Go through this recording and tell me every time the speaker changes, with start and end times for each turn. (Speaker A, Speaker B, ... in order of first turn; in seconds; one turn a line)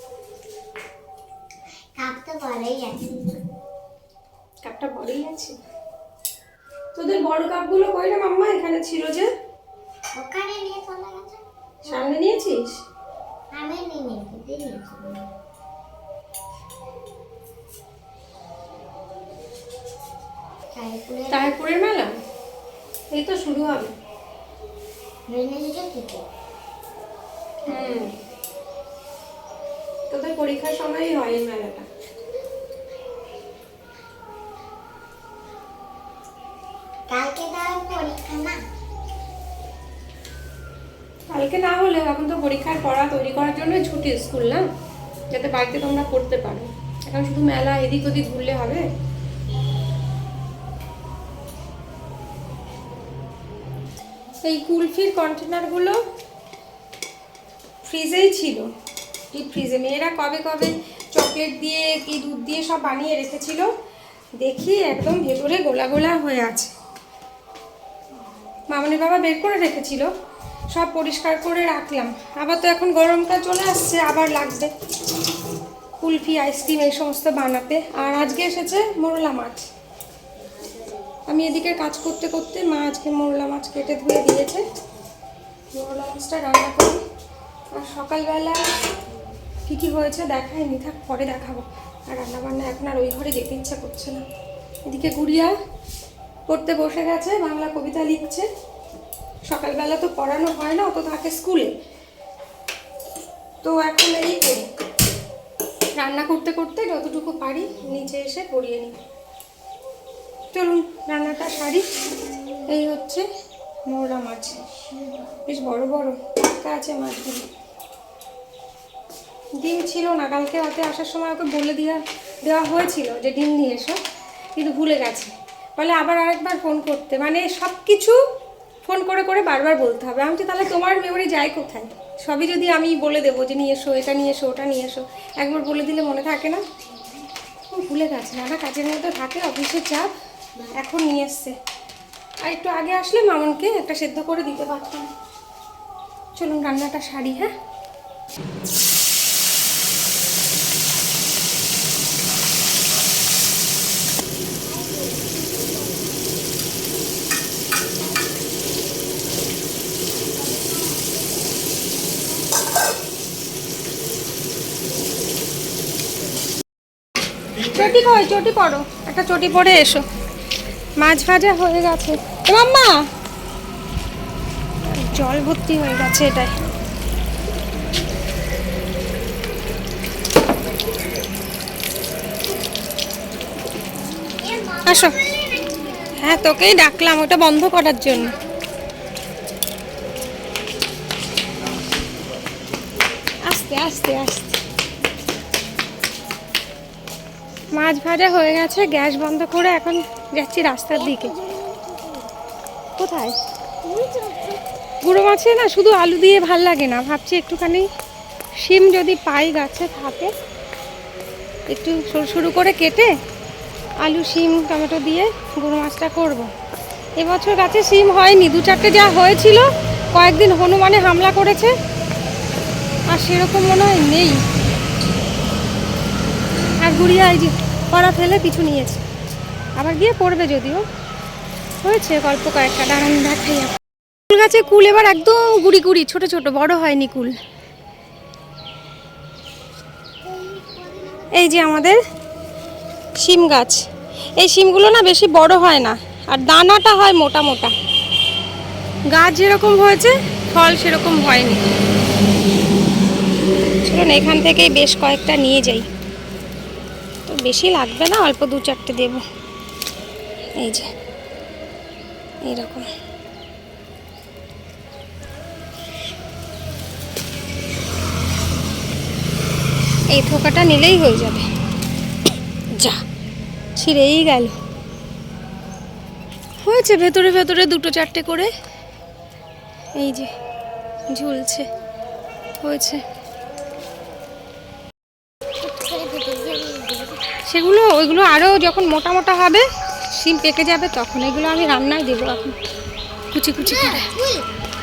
Speaker A: 2.0-3.4
Speaker B: 4.6-5.5
Speaker B: 6.9-9.3
Speaker A: 10.1-12.1
Speaker B: 11.9-12.8
Speaker A: 13.5-15.3
Speaker A: 20.7-21.6
Speaker B: 21.3-22.1
Speaker B: 23.1-23.9
Speaker A: 25.3-26.2
Speaker A: 27.7-28.1
Speaker B: 27.7-28.1
Speaker B: 30.1-31.8
Speaker A: 37.1-38.6
Speaker B: 41.3-44.6
Speaker B: 45.3-48.8
Speaker B: 54.4-56.0
Speaker B: 57.8-58.6
Speaker B: 59.3-63.7
Speaker B: 64.4-66.7
Speaker B: 68.7-70.1
Speaker B: 70.7-74.7
Speaker B: 76.0-79.7
Speaker B: 81.3-84.6
Speaker B: 85.7-87.0
Speaker B: 87.7-88.7
Speaker B: 89.7-94.2
Speaker B: 94.9-95.5
Speaker B: 96.5-98.5
Speaker B: 99.5-101.7
Speaker B: 103.6-104.6
Speaker B: 106.0-108.9
Speaker B: 110.5-111.8
Speaker B: 112.7-113.2
Speaker B: 113.9-114.6
Speaker A: 114.9-115.2
Speaker B: 115.5-117.5
Speaker B: 119.6-124.0
Speaker B: 124.5-128.2
Speaker B: 128.8-136.6
Speaker B: 137.7-140.1
Speaker B: 140.6-141.5
Speaker B: 142.4-145.1
Speaker B: 146.3-147.5
Speaker A: 154.6-156.2
Speaker A: 160.3-161.5
Speaker B: 167.6-170.0
Speaker B: 171.0-173.0
Speaker B: 174.8-176.5
Speaker A: 184.2-187.0
Speaker B: 184.8-185.1
Speaker B: 186.2-188.3
Speaker A: 188.1-188.8
Speaker B: 193.4-194.6
Speaker B: 197.7-201.3
Speaker A: 200.9-202.3
Speaker B: 203.0-203.3
Speaker A: 203.8-204.6
Speaker B: 205.0-207.9
Speaker B: 208.6-210.3
Speaker B: 211.7-213.1
Speaker B: 214.0-216.5
Speaker B: 217.2-221.7
Speaker B: 223.1-224.4
Speaker B: 226.8-229.0
Speaker B: 229.8-230.8
Speaker B: 231.8-233.7
Speaker B: 234.3-237.3
Speaker A: 240.2-241.7
Speaker B: 241.3-242.0
Speaker B: 243.2-243.8
Speaker B: 244.4-247.7
Speaker B: 249.1-251.6
Speaker B: 253.8-255.8
Speaker B: 257.3-259.2
Speaker B: 260.6-260.9
Speaker B: 262.4-262.9
Speaker B: 270.1-271.4
Speaker B: 273.8-274.5
Speaker B: 276.6-278.5
Speaker B: 280.0-280.3
Speaker B: 281.1-281.6
Speaker B: 282.6-283.0
Speaker A: 285.6-287.2
Speaker B: 287.4-292.5
Speaker B: 293.3-294.1
Speaker A: 293.6-294.5